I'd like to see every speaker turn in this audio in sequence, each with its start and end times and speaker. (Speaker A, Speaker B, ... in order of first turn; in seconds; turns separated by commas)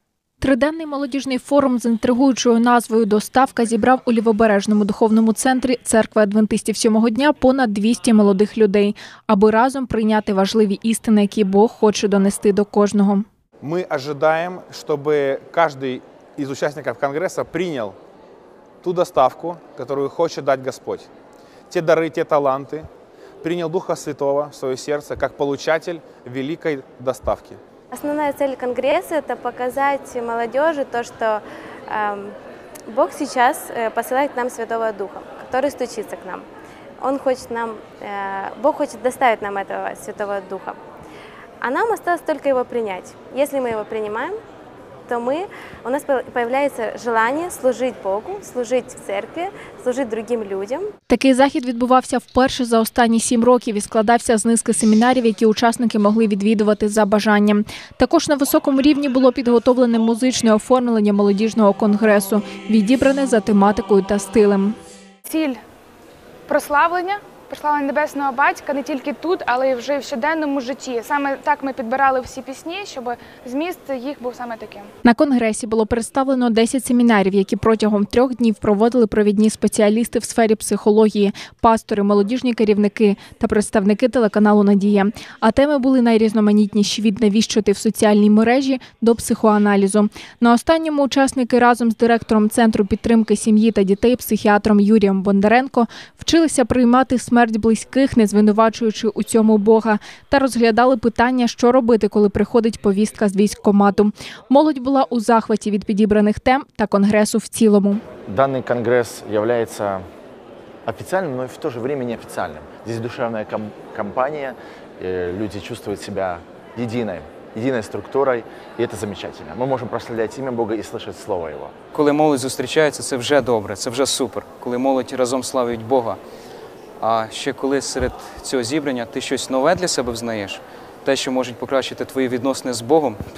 Speaker A: 0.4-13.2, Speaker B: 13.6-17.9, Speaker B: 18.8-21.1, Speaker B: 21.7-22.9, Speaker B: 23.4-27.6, Speaker C: 27.9-32.3, Speaker C: 32.9-36.5, Speaker C: 37.0-40.8, Speaker C: 41.6-44.4, Speaker C: 45.1-50.9, Speaker A: 51.1-64.8, Speaker D: 65.2-65.6, Speaker D: 66.5-74.9, Speaker A: 75.0-108.0, Speaker E: 108.3-110.0, Speaker E: 110.8-121.7, Speaker F: 121.9-126.2, Speaker F: 127.0-133.2